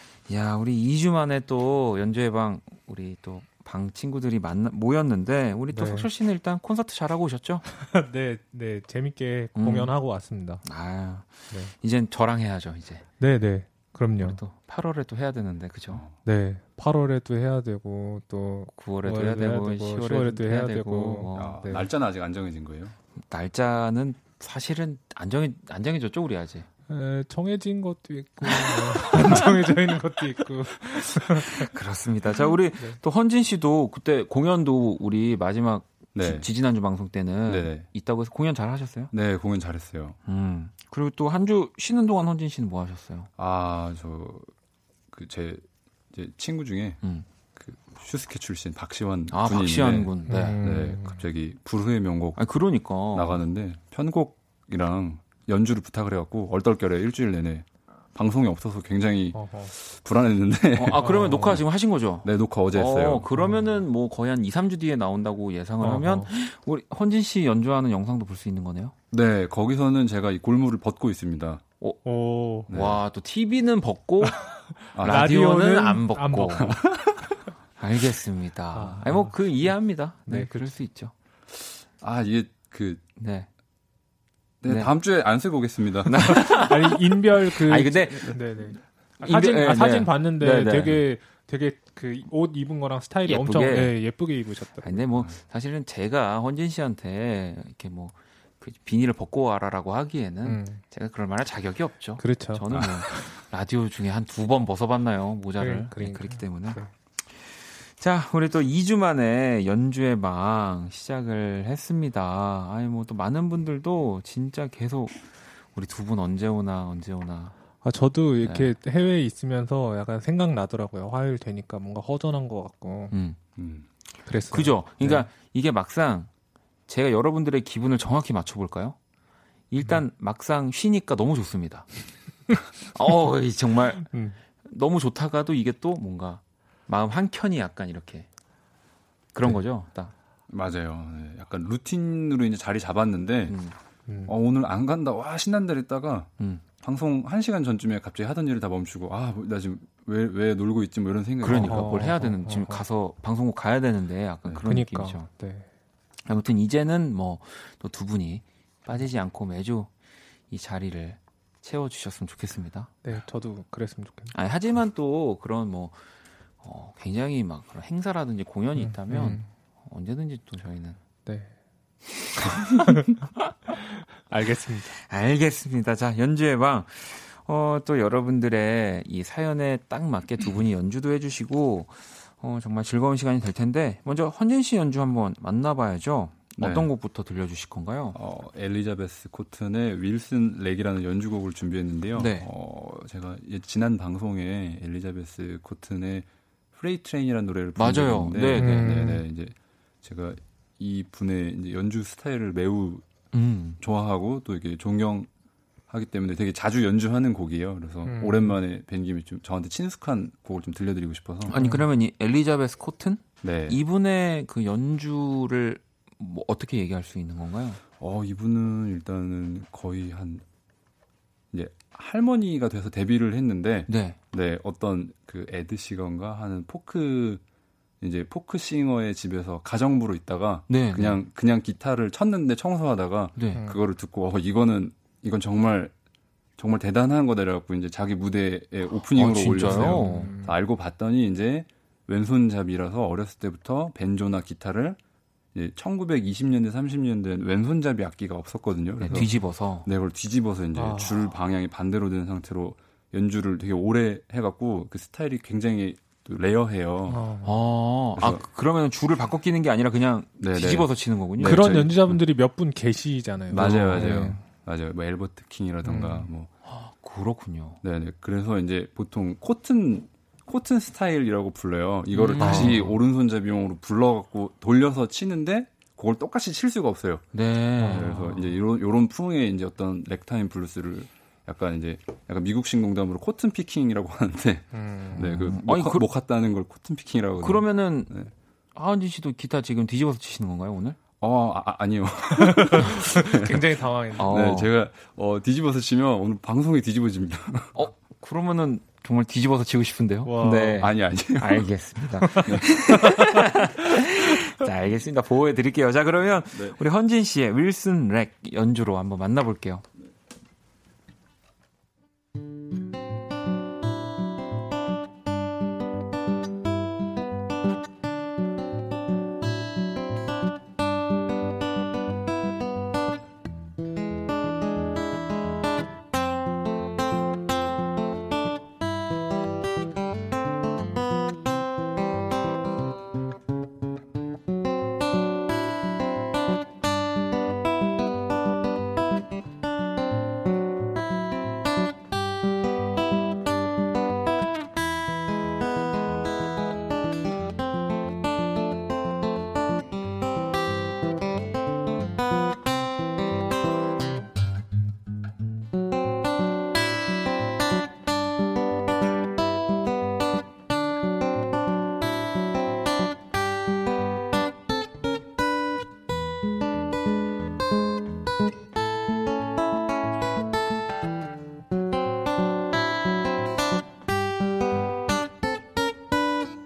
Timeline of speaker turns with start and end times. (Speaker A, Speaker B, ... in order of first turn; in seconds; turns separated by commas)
Speaker A: 0.3-7.6, Speaker B: 5.7-6.1, Speaker B: 7.7-10.6, Speaker A: 9.5-9.9, Speaker A: 10.6-13.1, Speaker B: 13.2-14.4, Speaker A: 14.2-16.0, Speaker B: 16.2-21.9, Speaker A: 18.7-21.6, Speaker C: 21.3-22.9, Speaker A: 23.1-26.7, Speaker B: 26.9-31.7, Speaker A: 28.5-29.4, Speaker A: 31.3-39.1, Speaker C: 36.1-36.5, Speaker C: 37.5-37.9, Speaker C: 39.1-40.2, Speaker A: 40.2-43.3, Speaker C: 43.4-44.5, Speaker C: 45.1-47.0, Speaker C: 47.5-52.4, Speaker A: 49.3-50.6, Speaker B: 50.2-51.2, Speaker A: 52.4-53.4, Speaker C: 53.1-61.6, Speaker B: 59.3-59.7, Speaker A: 60.8-68.9, Speaker B: 61.0-61.6, Speaker C: 62.2-63.3, Speaker B: 65.8-66.3, Speaker C: 69.1-71.6, Speaker B: 72.0-72.7, Speaker A: 72.7-74.4, Speaker C: 72.7-73.0, Speaker B: 74.9-76.6, Speaker C: 74.9-75.3, Speaker A: 74.9-76.8, Speaker C: 76.6-77.2, Speaker A: 77.8-81.1, Speaker B: 78.7-79.7, Speaker B: 80.3-80.7, Speaker C: 81.5-83.0, Speaker A: 83.2-83.5, Speaker C: 84.6-86.2, Speaker A: 84.7-84.9, Speaker A: 86.0-88.4, Speaker B: 86.2-95.1, Speaker A: 89.2-91.0, Speaker A: 93.3-93.9, Speaker A: 94.8-117.6, Speaker B: 100.4-100.8, Speaker B: 102.2-102.6, Speaker C: 102.7-103.0, Speaker B: 105.6-106.9, Speaker B: 117.8-123.1, Speaker A: 118.4-118.7, Speaker A: 123.1-123.4, Speaker C: 123.6-123.9, Speaker B: 124.2-125.3, Speaker A: 124.5-126.3, Speaker A: 126.9-129.0, Speaker A: 129.7-131.9, Speaker A: 132.9-138.3, Speaker B: 134.0-134.4, Speaker A: 139.3-140.1, Speaker C: 140.5-143.6, Speaker A: 143.5-143.8, Speaker B: 144.1-144.3, Speaker C: 144.3-152.1, Speaker A: 151.4-155.3, Speaker B: 151.6-152.8, Speaker B: 154.6-155.7, Speaker A: 156.2-159.9, Speaker A: 160.5-162.9, Speaker B: 163.0-164.3, Speaker A: 164.3-166.1, Speaker A: 166.6-171.0, Speaker B: 168.8-169.5, Speaker B: 171.2-171.5, Speaker A: 172.4-172.8, Speaker B: 174.3-174.9, Speaker A: 174.9-188.2, Speaker C: 186.6-186.9, Speaker C: 188.1-203.0, Speaker A: 192.1-192.5, Speaker A: 197.8-199.0, Speaker B: 198.5-199.2, Speaker A: 203.3-203.8, Speaker C: 203.8-205.3, Speaker C: 205.9-211.6, Speaker B: 208.0-208.6, Speaker A: 211.5-217.8, Speaker B: 211.6-211.8, Speaker C: 213.4-213.8, Speaker C: 218.0-220.4, Speaker C: 221.5-227.4, Speaker A: 223.9-224.2, Speaker C: 228.0-235.9, Speaker A: 230.7-231.2, Speaker A: 233.3-233.6, Speaker B: 233.5-233.8, Speaker C: 236.6-245.0, Speaker A: 239.1-240.3, Speaker B: 239.4-240.5, Speaker C: 245.5-249.3, Speaker A: 249.0-249.9, Speaker C: 249.8-257.2, Speaker B: 250.7-251.3, Speaker B: 257.1-257.6, Speaker A: 257.4-261.7, Speaker C: 258.2-258.4, Speaker C: 260.4-262.2, Speaker B: 261.4-264.4, Speaker C: 263.5-266.5, Speaker A: 263.5-264.1, Speaker B: 265.8-266.3, Speaker A: 266.6-267.8, Speaker C: 267.8-277.2, Speaker A: 272.1-272.9, Speaker B: 272.4-272.9, Speaker A: 277.3-278.5, Speaker B: 277.8-278.3, Speaker C: 277.9-288.3, Speaker B: 284.7-285.2, Speaker A: 285.1-286.1, Speaker A: 287.4-288.1, Speaker A: 288.8-291.0, Speaker C: 291.2-293.6, Speaker B: 292.4-294.3, Speaker A: 294.2-294.7, Speaker C: 294.2-297.7, Speaker A: 297.7-309.8, Speaker B: 300.2-300.8, Speaker C: 300.4-301.6, Speaker C: 302.5-302.7